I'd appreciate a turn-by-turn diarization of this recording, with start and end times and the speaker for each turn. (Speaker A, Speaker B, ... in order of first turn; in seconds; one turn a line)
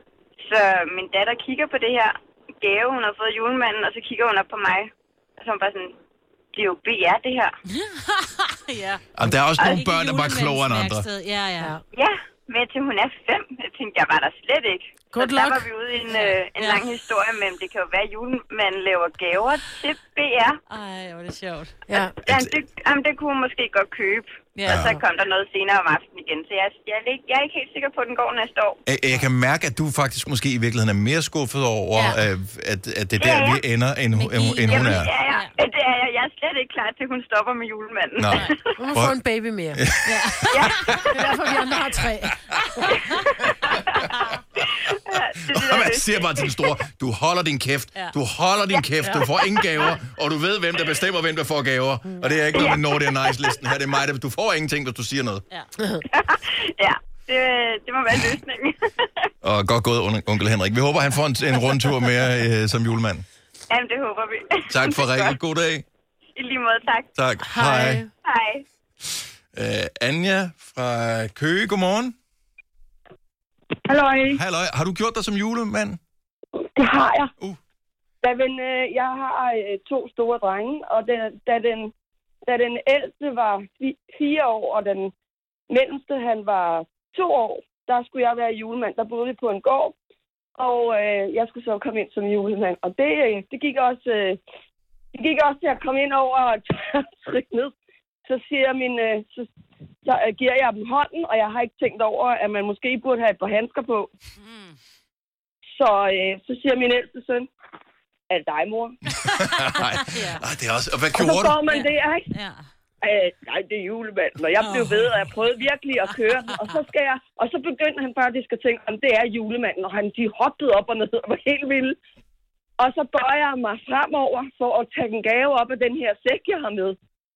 Speaker A: 0.4-5.9
Speaker A: 6.5-7.5
Speaker B: 7.7-9.0
Speaker C: 9.2-11.1
Speaker B: 9.6-11.7
Speaker A: 11.9-20.6
Speaker D: 15.1-15.7
Speaker B: 16.1-16.8
Speaker B: 20.7-21.8
Speaker D: 21.9-22.1
Speaker A: 22.2-28.8
Speaker C: 22.3-22.5
Speaker B: 24.6-24.9
Speaker C: 24.7-24.9
Speaker C: 28.9-35.1
Speaker A: 33.2-33.6
Speaker B: 34.1-35.5
Speaker A: 34.7-38.3
Speaker C: 38.2-39.1
Speaker D: 38.8-39.8
Speaker C: 39.7-41.0
Speaker B: 40.0-40.9
Speaker A: 40.5-41.0
Speaker D: 41.1-42.4
Speaker A: 42.9-44.0
Speaker A: 44.6-46.7
Speaker C: 45.1-55.4
Speaker A: 52.5-53.6
Speaker A: 56.1-59.3
Speaker C: 59.4-63.2
Speaker A: 63.7-65.4
Speaker C: 64.7-65.8
Speaker A: 66.3-67.1
Speaker C: 67.1-68.0
Speaker D: 67.4-68.1
Speaker A: 68.2-68.6
Speaker C: 69.0-72.1
Speaker E: 73.8-74.4
Speaker C: 74.3-76.0
Speaker E: 76.6-77.3
Speaker E: 78.2-81.9
Speaker E: 82.5-85.1
Speaker E: 85.7-90.0
Speaker E: 90.6-94.4
Speaker E: 95.1-97.7
Speaker E: 98.2-99.5
Speaker E: 100.0-104.1
Speaker B: 104.4-104.7
Speaker E: 105.7-107.5
Speaker E: 108.3-108.9
Speaker C: 109.2-111.6
Speaker B: 109.6-110.4
Speaker E: 111.2-112.3
Speaker B: 111.7-112.6
Speaker E: 113.0-122.0
Speaker B: 114.6-115.1
Speaker B: 116.2-116.8
Speaker E: 122.8-127.0